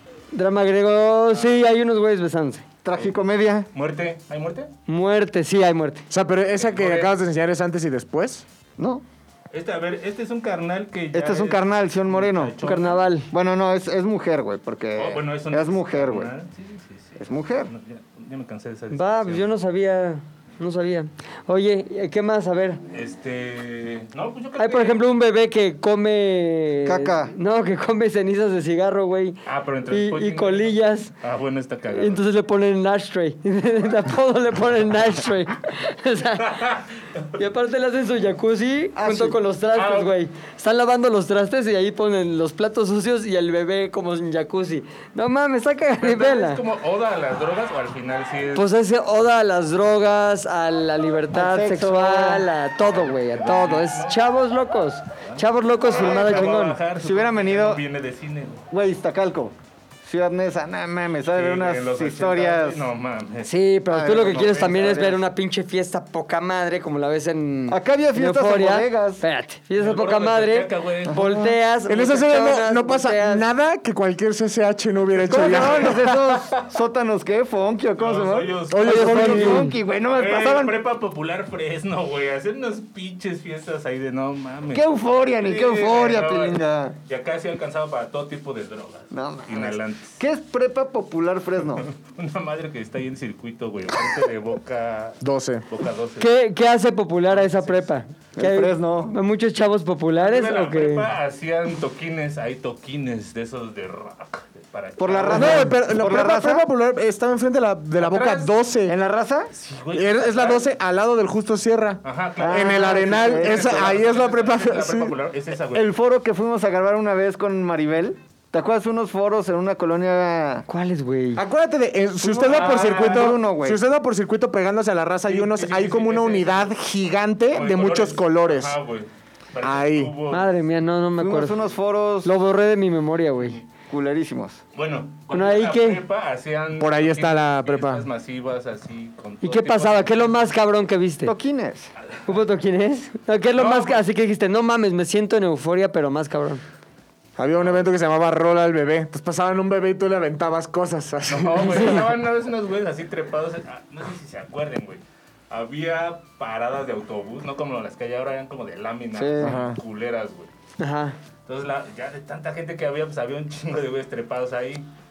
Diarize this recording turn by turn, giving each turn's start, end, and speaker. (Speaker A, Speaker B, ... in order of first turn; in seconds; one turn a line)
Speaker A: 0.3-2.6
Speaker B: 1.3-1.6
Speaker C: 2.8-3.7
Speaker B: 3.7-4.7
Speaker A: 4.9-6.0
Speaker D: 6.1-8.4
Speaker B: 6.6-7.1
Speaker C: 8.8-9.0
Speaker B: 9.5-13.1
Speaker C: 11.1-12.6
Speaker A: 12.6-13.3
Speaker C: 13.3-16.3
Speaker B: 14.9-19.5
Speaker C: 17.2-17.7
Speaker A: 18.9-22.8
Speaker B: 22.9-25.0
Speaker A: 24.6-31.1
Speaker C: 26.8-27.3
Speaker B: 29.4-32.2
Speaker A: 31.9-36.7
Speaker B: 36.4-37.3
Speaker A: 37.4-46.6
Speaker C: 39.0-39.4
Speaker B: 39.8-40.1
Speaker B: 46.0-48.7
Speaker A: 48.5-56.8
Speaker C: 51.3-52.5
Speaker B: 52.9-54.2
Speaker B: 55.2-58.6
Speaker C: 55.9-57.8
Speaker C: 58.7-62.8
Speaker B: 61.3-63.5
Speaker A: 63.4-73.5
Speaker C: 63.9-65.2
Speaker C: 67.7-69.2
Speaker B: 69.8-71.4
Speaker C: 71.1-71.5
Speaker D: 71.9-76.3
Speaker C: 75.3-80.8
Speaker B: 75.4-76.7
Speaker B: 78.0-79.6
Speaker D: 78.7-79.7
Speaker A: 78.8-79.7
Speaker B: 80.1-90.2
Speaker C: 84.7-87.0
Speaker C: 89.1-91.9
Speaker B: 91.9-96.3
Speaker D: 95.2-95.7
Speaker A: 96.2-101.1
Speaker B: 97.3-97.9
Speaker C: 98.4-99.2
Speaker B: 100.2-105.7
Speaker C: 105.0-106.7
Speaker D: 105.3-109.0
Speaker B: 108.0-108.6
Speaker C: 108.9-109.5
Speaker B: 109.5-110.7
Speaker D: 109.9-115.1
Speaker B: 112.0-115.9
Speaker C: 112.4-114.0
Speaker C: 115.7-120.7
Speaker A: 120.7-121.4
Speaker D: 121.4-128.8
Speaker C: 122.2-123.8
Speaker B: 122.5-123.4
Speaker B: 125.3-126.7
Speaker B: 127.5-130.5
Speaker D: 129.6-130.2
Speaker A: 130.3-131.6
Speaker C: 131.2-132.3
Speaker A: 132.2-133.6
Speaker C: 133.9-134.6
Speaker B: 134.8-140.5
Speaker A: 135.3-136.0
Speaker D: 136.8-138.1
Speaker A: 139.4-141.3
Speaker C: 141.3-141.9
Speaker A: 142.3-146.6
Speaker B: 143.6-144.0
Speaker D: 147.4-152.1
Speaker B: 151.3-160.5
Speaker C: 159.2-159.6
Speaker D: 159.4-159.8
Speaker A: 160.8-161.2
Speaker B: 161.5-164.8